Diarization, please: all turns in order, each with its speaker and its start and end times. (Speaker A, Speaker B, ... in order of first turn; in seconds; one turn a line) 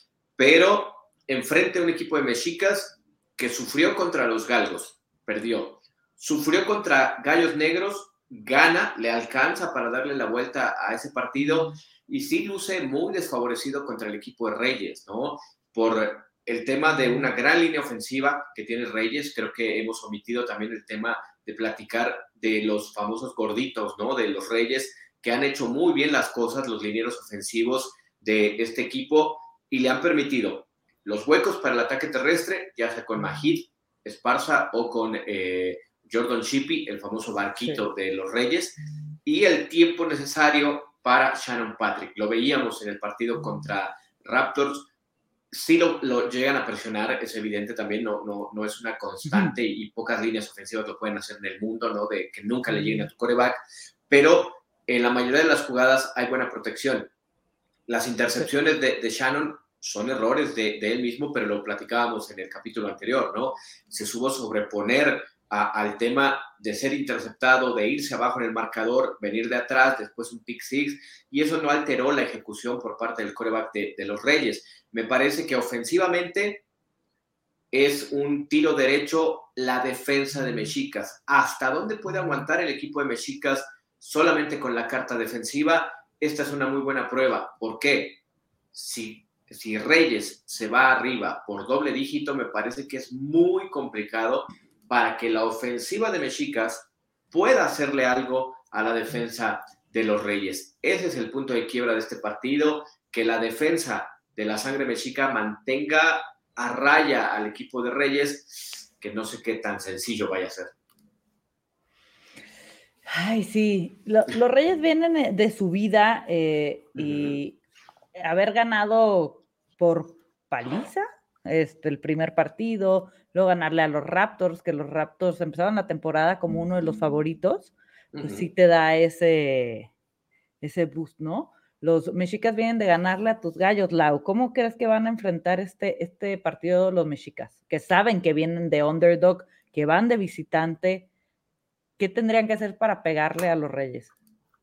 Speaker A: 0.4-44.9
Speaker A: 45.5-57.1
Speaker B: 49.3-49.5
Speaker A: 57.9-76.6
Speaker A: 77.7-88.2
Speaker A: 88.7-110.7
Speaker B: 113.1-117.6
Speaker A: 117.0-117.4
Speaker B: 118.2-129.9
Speaker A: 128.1-128.5
Speaker B: 130.6-141.1
Speaker B: 142.0-144.1